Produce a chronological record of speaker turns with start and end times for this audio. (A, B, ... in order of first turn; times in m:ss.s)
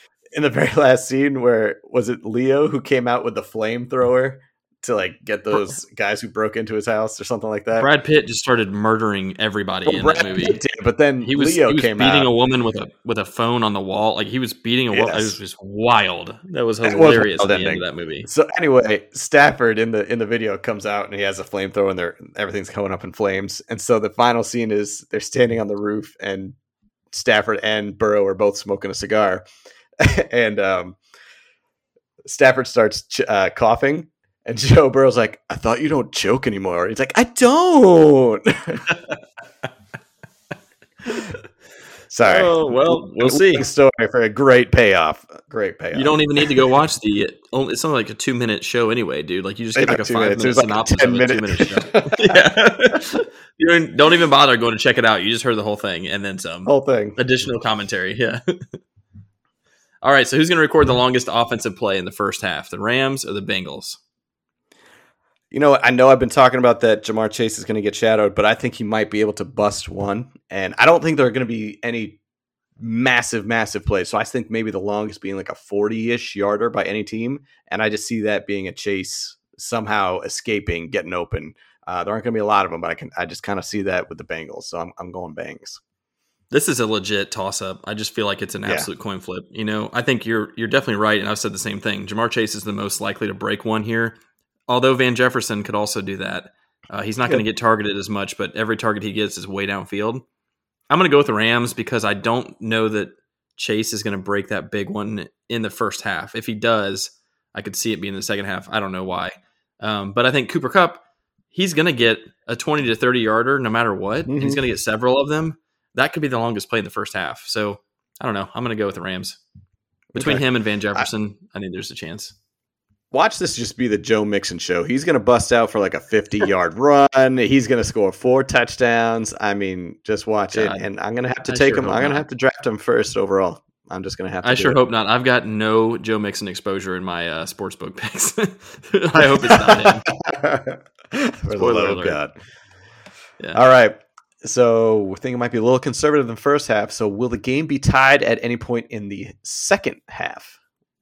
0:00.3-0:07.9 A
0:07.8-0:10.6 B
0:09.9-0:12.3 A
0:11.2-0:18.3 B
0:14.9-0:15.4 A
0:16.8-0:26.6 A
0:27.1-0:29.4 A
0:30.0-0:31.0 A
0:32.2-0:39.0 A
0:42.1-0:46.5 A
0:42.2-0:43.6 B
0:45.9-0:58.8 B
0:49.8-0:52.4 A
0:56.7-0:57.2 A
1:00.0-1:04.0 B
1:05.5-1:12.2 A
1:12.8-1:25.8 A
1:26.5-1:34.2 B
1:34.7-1:40.2 B
1:40.9-1:51.0 B
1:51.5-1:59.4 B
1:54.3-1:54.6 A
2:00.1-2:00.4 A
2:00.2-2:02.3 B
2:03.1-2:14.8 A
2:10.5-2:10.8 B
2:11.4-2:12.2 B
2:14.4-2:20.1 B
2:19.2-2:22.3 A
2:21.6-2:22.2 B
2:23.5-2:30.6 A